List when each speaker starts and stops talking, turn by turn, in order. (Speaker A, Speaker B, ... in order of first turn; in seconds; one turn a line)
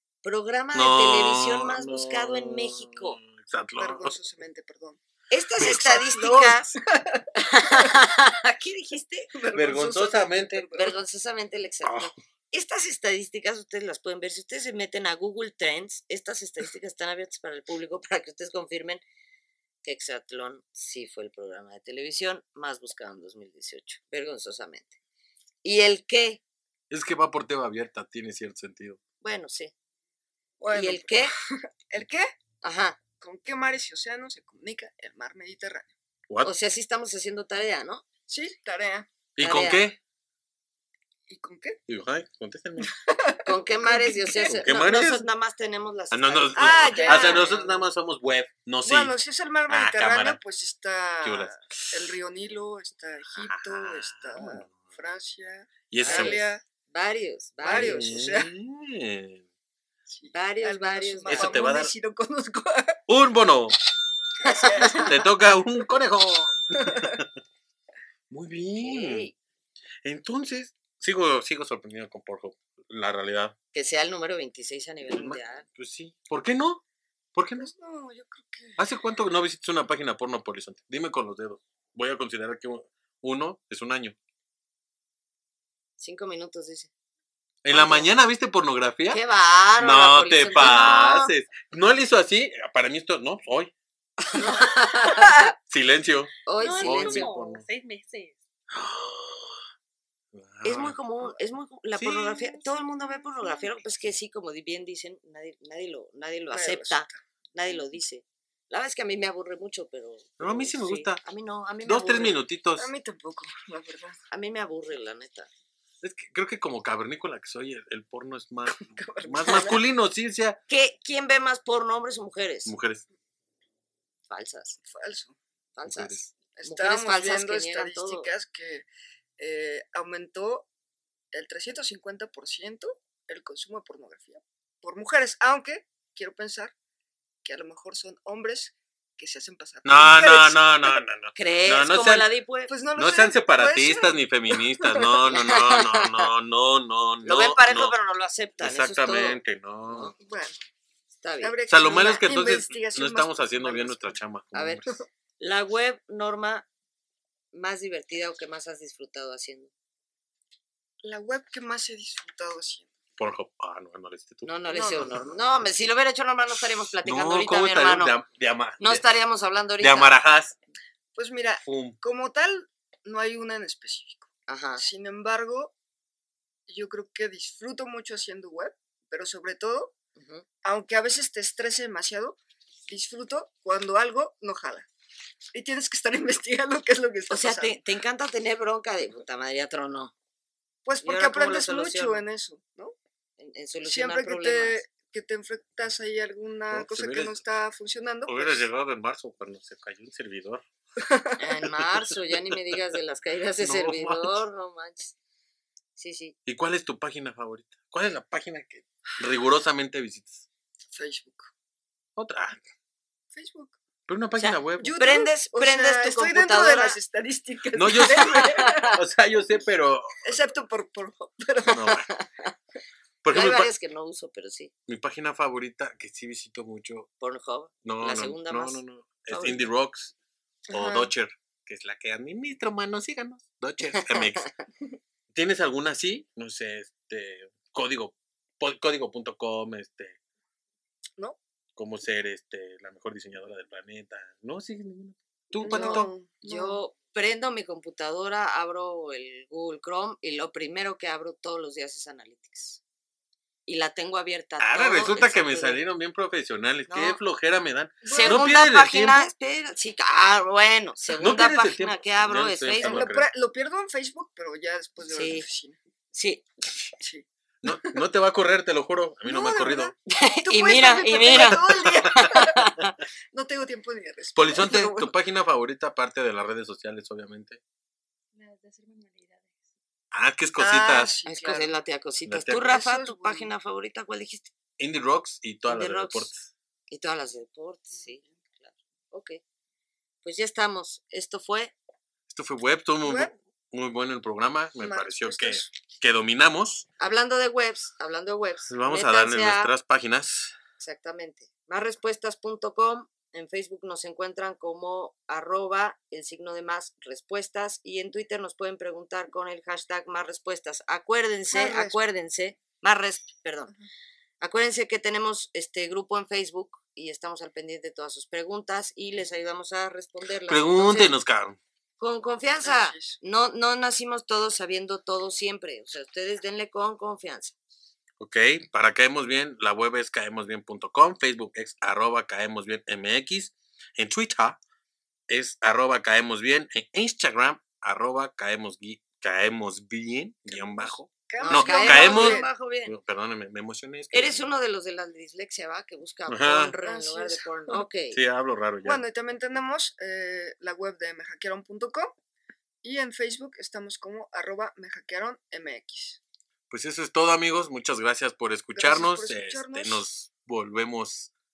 Speaker A: 0.2-3.2
Speaker B: 0.7-4.2
Speaker C: 3.8-5.0
Speaker A: 5.3-6.7
Speaker C: 5.6-8.0
Speaker B: 5.6-6.4
Speaker A: 7.3-9.3
Speaker C: 9.3-11.0
Speaker B: 9.5-10.7
Speaker A: 10.7-19.0
Speaker B: 11.8-12.1
Speaker A: 19.8-25.0
Speaker A: 25.6-26.4
Speaker B: 26.9-29.0
Speaker A: 29.2-29.7
Speaker C: 30.6-32.3
Speaker A: 30.7-31.4
Speaker A: 32.6-33.0
Speaker C: 33.2-35.9
Speaker A: 36.4-38.0
Speaker C: 38.3-39.1
Speaker B: 39.4-40.0
Speaker A: 39.4-39.8
Speaker C: 41.3-41.8
Speaker B: 41.9-43.0
Speaker C: 42.8-44.5
Speaker A: 43.4-47.8
Speaker B: 44.4-45.2
Speaker B: 46.1-49.1
Speaker C: 46.5-47.8
Speaker C: 48.8-56.6
Speaker B: 49.7-50.4
Speaker B: 51.2-52.2
Speaker B: 53.4-54.9
Speaker B: 55.9-56.4
Speaker A: 56.0-58.2
Speaker C: 57.6-58.5
Speaker B: 57.7-59.5
Speaker C: 60.1-63.0
Speaker A: 60.3-61.7
Speaker B: 61.3-61.9
Speaker B: 63.1-63.8
Speaker C: 64.4-65.3
Speaker A: 64.5-65.0
Speaker B: 64.6-67.3
Speaker C: 66.8-67.2
Speaker B: 68.3-69.3
Speaker A: 68.8-69.3
Speaker B: 70.0-73.5
Speaker A: 73.7-75.7
Speaker B: 75.1-76.8
Speaker B: 77.3-77.7
Speaker C: 77.6-78.8
Speaker B: 78.8-84.2
Speaker A: 86.0-86.9
Speaker B: 87.6-89.2
Speaker A: 87.7-88.1
Speaker A: 89.1-91.3
Speaker B: 89.8-93.7
Speaker A: 94.3-95.5
Speaker B: 95.6-97.7
Speaker A: 96.5-97.3
Speaker D: 96.6-98.4
Speaker B: 98.7-99.6
Speaker B: 100.3-101.0
Speaker A: 100.6-112.4
Speaker B: 102.0-102.5
Speaker C: 102.8-103.7
Speaker C: 106.5-107.2
Speaker B: 110.4-111.2
Speaker B: 111.8-112.9
Speaker C: 112.8-114.2
Speaker A: 114.3-115.5
Speaker B: 116.0-120.6
Speaker C: 118.7-119.8
Speaker A: 120.7-122.7
Speaker B: 122.7-123.0
Speaker A: 124.3-124.8
Speaker C: 124.9-125.4
Speaker A: 125.8-128.3
Speaker B: 125.9-126.3
Speaker C: 126.5-128.9
Speaker C: 129.4-130.7
Speaker C: 131.3-136.7
Speaker C: 137.4-141.0
Speaker B: 139.8-142.3
Speaker A: 141.3-142.7
Speaker C: 142.7-145.3
Speaker B: 143.0-148.0
Speaker A: 145.3-146.3
Speaker A: 147.2-149.4
Speaker B: 148.6-150.2
Speaker C: 150.2-150.6
Speaker A: 151.2-151.6
Speaker C: 151.4-154.2
Speaker B: 151.7-154.9
Speaker A: 154.5-154.8
Speaker A: 155.4-156.7
Speaker A: 157.5-159.7
Speaker C: 161.0-162.9
Speaker B: 163.2-165.2
Speaker A: 164.4-168.2
Speaker C: 164.7-165.2
Speaker B: 166.6-169.0
Speaker A: 168.8-170.1
Speaker B: 169.8-170.6
Speaker C: 171.2-175.7
Speaker B: 171.6-172.0
Speaker A: 174.5-174.8
Speaker C: 176.7-179.9
Speaker A: 180.2-180.4
Speaker C: 180.6-182.4
Speaker C: 182.9-184.9
Speaker C: 185.5-187.8
Speaker A: 187.3-190.1
Speaker C: 190.8-192.9
Speaker A: 191.0-192.2
Speaker A: 193.4-194.8
Speaker C: 193.8-198.7
Speaker B: 196.7-197.4
Speaker B: 198.3-200.6
Speaker C: 201.0-201.4
Speaker A: 201.4-205.2
Speaker B: 201.8-202.8
Speaker B: 203.6-204.4
Speaker A: 206.0-206.3
Speaker B: 206.5-210.4
Speaker C: 210.9-211.5
Speaker B: 212.2-212.6
Speaker C: 213.3-213.8
Speaker B: 214.1-215.0
Speaker A: 214.4-217.0
Speaker C: 214.8-219.0
Speaker B: 217.7-220.3
Speaker A: 218.2-218.9
Speaker C: 220.2-222.0
Speaker B: 221.7-222.1
Speaker A: 222.1-222.5
Speaker B: 223.2-223.7
Speaker A: 223.3-224.7
Speaker B: 224.9-227.1
Speaker A: 227.2-229.7
Speaker B: 227.8-230.1
Speaker C: 230.7-231.1
Speaker B: 230.7-234.5
Speaker A: 233.9-234.5
Speaker B: 235.3-240.2
Speaker B: 241.8-246.1
Speaker C: 245.6-246.8
Speaker A: 245.6-252.8
Speaker A: 253.7-255.8
Speaker B: 254.6-259.3
Speaker A: 256.9-257.2
Speaker C: 258.0-258.6
Speaker A: 258.1-263.1
Speaker B: 261.1-263.3
Speaker C: 262.8-265.8
Speaker A: 265.1-265.5
Speaker A: 266.1-266.5
Speaker C: 267.0-268.0
Speaker B: 267.6-269.9
Speaker C: 269.3-272.7
Speaker A: 270.1-273.0
Speaker B: 271.3-272.1
Speaker C: 273.3-275.1
Speaker B: 274.4-277.6
Speaker D: 278.3-279.6
Speaker B: 280.1-281.1
Speaker C: 280.6-281.7
Speaker A: 281.3-284.5
Speaker B: 282.3-282.8
Speaker C: 282.6-283.5
Speaker B: 284.8-286.5
Speaker A: 285.7-286.3
Speaker A: 286.9-289.4
Speaker C: 287.9-288.3
Speaker A: 290.2-291.7
Speaker B: 292.3-296.9
Speaker C: 293.0-293.3
Speaker C: 294.8-295.7
Speaker A: 297.0-299.7
Speaker B: 298.7-300.6
Speaker A: 300.8-313.7
Speaker C: 311.5-312.0
Speaker A: 314.4-321.1
Speaker B: 320.5-321.6
Speaker A: 322.0-327.6
Speaker C: 322.6-323.2
Speaker B: 328.2-334.6
Speaker B: 335.3-344.5
Speaker C: 340.5-342.5
Speaker A: 341.4-342.9
Speaker A: 344.1-348.2
Speaker B: 346.3-346.8
Speaker C: 346.8-347.9
Speaker B: 348.1-349.0
Speaker C: 348.8-352.1
Speaker C: 352.8-356.2
Speaker B: 356.7-361.3
Speaker C: 358.8-360.1